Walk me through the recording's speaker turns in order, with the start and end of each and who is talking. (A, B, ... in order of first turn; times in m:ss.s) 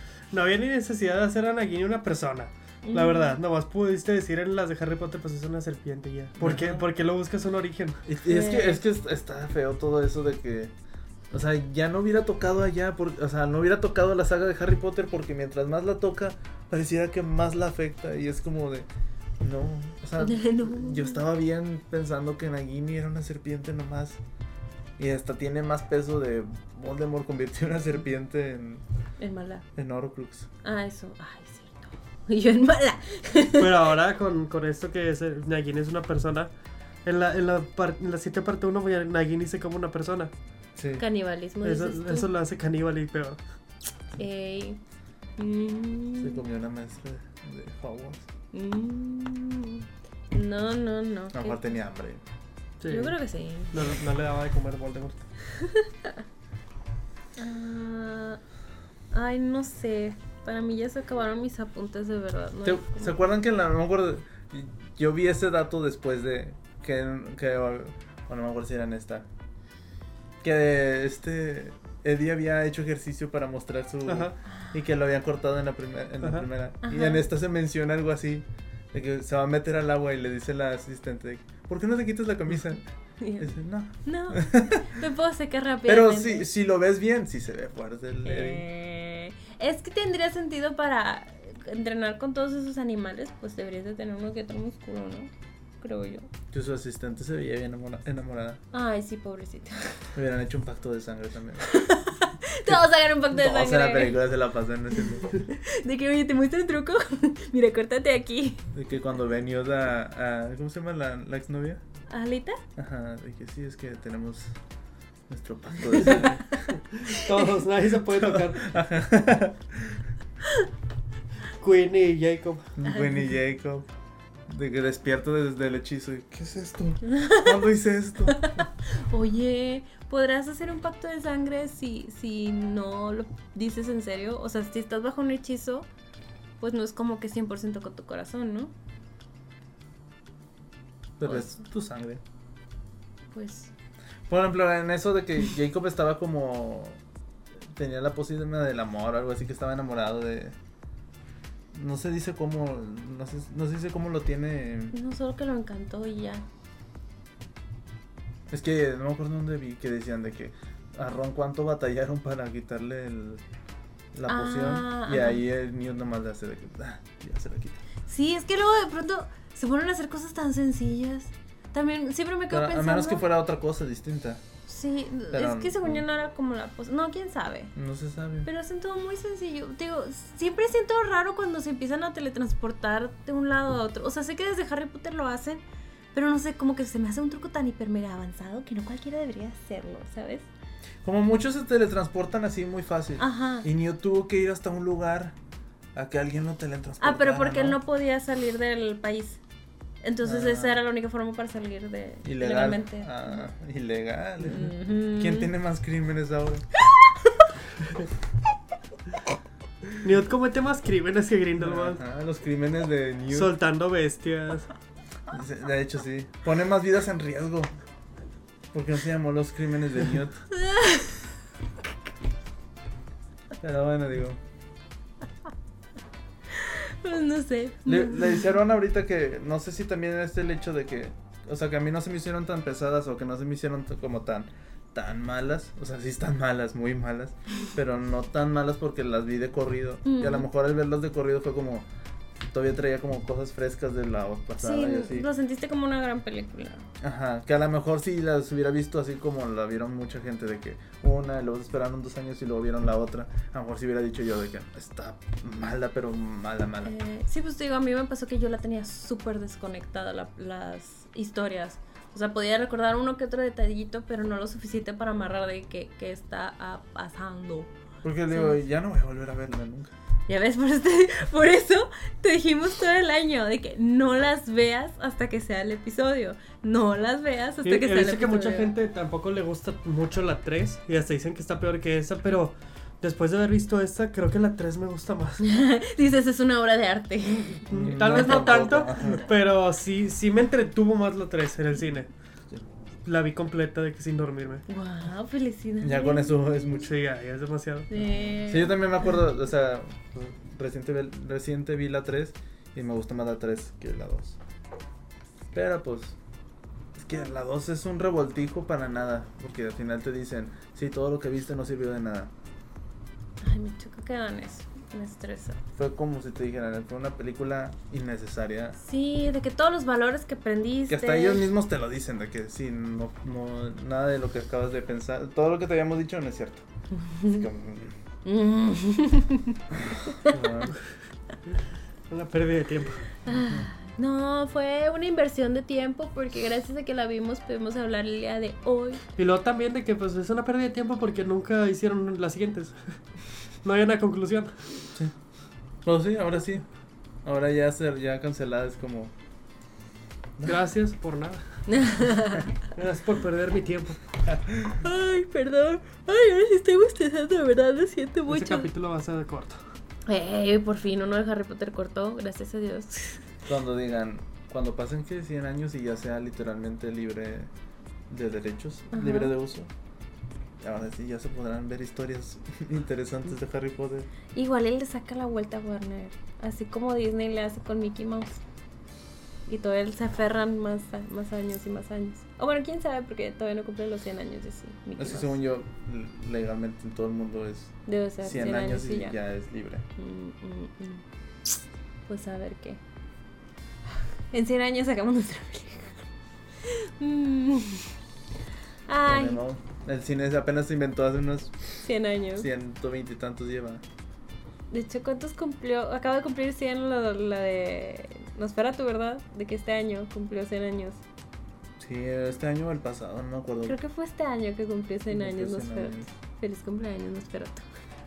0:00.3-0:08.0 A
0:02.8-0:03.4 B
0:06.4-0:06.8 C
0:08.0-0:10.7 C
0:08.2-0:08.8 B
0:11.3-0:18.8 C
0:19.4-0:24.2 C
0:20.2-0:21.2 B
0:25.0-0:28.8 C
0:29.2-0:29.6 B
0:29.7-0:30.5 C
0:30.6-0:33.9 B
0:33.6-0:36.5 A
0:37.0-0:40.3 A
0:40.8-0:41.0 C
0:41.0-0:42.3 B
0:41.6-0:43.4 A
0:44.2-0:44.8 B
0:45.4-0:46.4 B
0:46.2-0:48.3 C
0:48.5-0:51.7 B
0:51.3-0:52.2 C
0:52.8-0:53.2 A
0:52.9-0:53.8 B
0:53.7-0:55.3 A
0:55.6-0:56.2 B
0:57.4-0:58.4 B
0:59.1-1:03.2 B
1:02.6-1:09.3 C
1:10.4-1:22.8 C
1:14.1-1:14.3 A
1:16.8-1:17.2 B
1:23.2-1:23.5 B
1:23.4-1:25.0 C
1:24.0-1:26.5 B
1:25.9-1:28.6 C
1:28.2-1:36.3 B
1:36.5-1:38.6 C
1:38.7-1:40.0 B
1:40.1-1:41.7 C
1:41.7-1:44.2 B
1:42.7-1:45.3 C
1:45.3-1:48.6 B
1:48.7-1:51.8 C
1:52.1-1:52.6 B
1:52.8-1:54.5 C
1:55.3-1:56.7 C
1:56.0-1:56.3 B
1:56.9-1:58.7 A
1:58.1-2:00.0 C
2:01.6-2:02.7 A
2:02.8-2:03.9 C
2:02.9-2:03.2 B
2:04.5-2:08.5 C
2:07.1-2:07.5 B
2:08.3-2:15.9 B
2:16.6-2:18.7 B
2:21.2-2:22.2 C
2:23.3-2:23.7 B
2:24.3-2:27.0 C
2:27.7-2:30.6 C
2:31.7-2:34.9 C
2:34.9-2:36.4 B
2:38.5-2:43.4 C
2:44.1-2:47.8 C
2:44.3-2:45.4 B
2:48.0-2:53.2 B
2:52.5-2:54.4 C
2:54.7-2:57.7 B
2:55.3-2:56.0 C
2:57.7-2:58.5 C
2:58.4-3:05.6 B
3:06.1-3:10.5 B
3:11.0-3:15.4 C
3:13.2-3:13.7 B
3:15.9-3:17.8 C
3:17.0-3:19.4 B
3:20.0-3:23.4 B
3:20.2-3:20.8 C
3:22.2-3:26.6 C
3:24.5-3:25.5 B
3:30.0-3:32.0 A
3:31.6-3:33.5 C
3:33.3-3:34.7 A
3:35.3-3:37.7 C
3:38.7-3:40.4 C
3:40.5-3:41.2 B
3:43.6-3:44.4 C
3:46.5-3:48.4 B
3:47.8-4:01.9 C
4:00.0-4:00.5 B
4:02.5-4:05.3 C
4:04.6-4:06.8 B
4:07.0-4:16.9 C
4:16.8-4:27.7 B
4:28.0-4:29.9 C
4:28.3-4:28.6 B
4:30.3-4:38.7 B
4:37.6-4:45.4 A
4:45.4-4:48.6 B
4:47.7-4:52.1 A
4:47.7-4:49.2 C
4:53.0-4:54.6 A
4:54.7-4:56.6 B
4:55.8-4:56.9 C
4:56.8-4:58.0 A
4:57.9-4:58.8 B
4:58.5-5:04.4 C
5:05.5-5:06.2 C
5:06.9-5:12.3 C
5:13.4-5:15.6 B
5:15.8-5:18.8 C
5:18.8-5:21.4 B
5:20.9-5:26.6 C
5:27.0-5:27.4 B
5:27.2-5:28.0 C
5:28.2-5:29.6 B
5:29.7-5:30.8 C
5:32.1-5:33.1 A
5:33.2-5:33.7 C
5:33.2-5:39.0 B
5:39.2-5:43.0 A
5:43.6-5:44.6 A
5:45.8-5:46.6 C
5:47.2-5:49.1 C
5:50.4-5:51.4 A
5:51.7-5:52.5 B
5:52.6-5:54.0 A
5:54.2-5:54.8 C
5:54.8-5:58.7 B
5:58.3-5:59.6 A
6:00.1-6:03.2 B
6:03.4-6:07.5 C
6:08.1-6:09.7 C
6:08.9-6:09.3 B
6:10.6-6:14.1 C
6:14.3-6:18.4 B
6:19.5-6:25.4 B
6:25.0-6:29.8 C
6:27.8-6:29.2 B
6:30.0-6:31.6 B
6:32.1-6:32.8 B
6:34.3-6:36.0 B
6:36.6-6:37.9 B
6:38.9-6:39.4 B
6:39.0-6:41.8 C
6:41.8-6:42.5 B
6:42.4-6:43.8 C
6:44.7-6:51.0 B
6:51.8-6:53.8 C
6:53.6-6:57.6 B
6:55.1-6:56.1 C